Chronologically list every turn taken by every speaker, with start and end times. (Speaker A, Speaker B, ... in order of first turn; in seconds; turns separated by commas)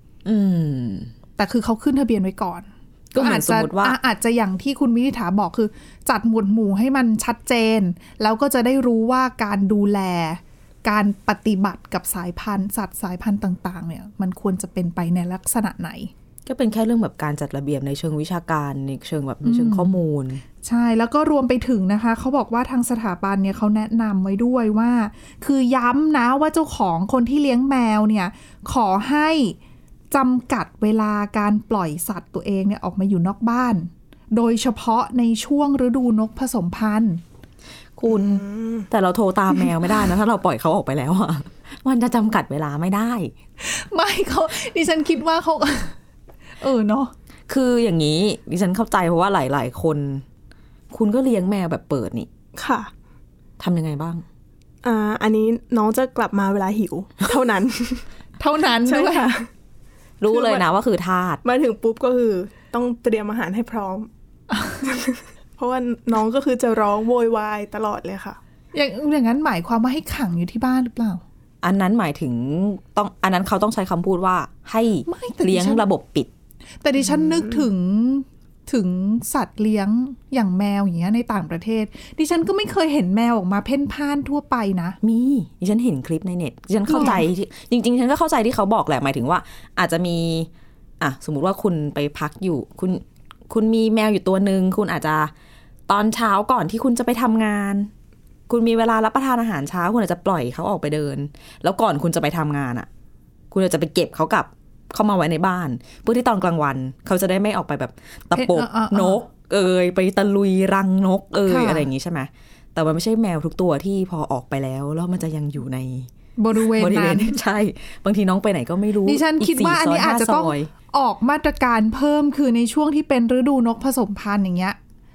Speaker A: 0.2-1.1, Speaker B: 1.4-16.1, Speaker A: 3.1-4.0, Speaker A: 16.5-20.4, Speaker B: 19.4-20.0, Speaker B: 20.6-29.6, Speaker B: 30.1-37.2, Speaker A: 38.0-43.3, Speaker C: 38.1-38.9, Speaker B: 43.6-46.0, Speaker B: 46.6-47.1, Speaker A: 47.5-50.2, Speaker A: 50.9-52.3, Speaker C: 52.6-52.9, Speaker A: 53.6-54.2, Speaker C: 54.8-58.1, Speaker B: 58.4-59.4, Speaker C: 58.9-59.5, Speaker A: 60.2-61.4, Speaker C: 60.3-60.6, Speaker C: 61.4-64.1, Speaker B: 64.5-64.9, Speaker C: 64.8-68.4, Speaker B: 68.7-71.2, Speaker A: 71.6-76.3, Speaker B: 75.1-75.9, Speaker B: 76.8-85.0, Speaker A: 85.0-95.3, Speaker B: 86.9-87.2, Speaker A: 95.9-97.9, Speaker A: 98.5-102.9, Speaker A: 103.5-120.7, Speaker B: 108.3-109.2, Speaker B: 111.5-111.9, Speaker B: 116.4-117.4, Speaker B: 119.0-124.8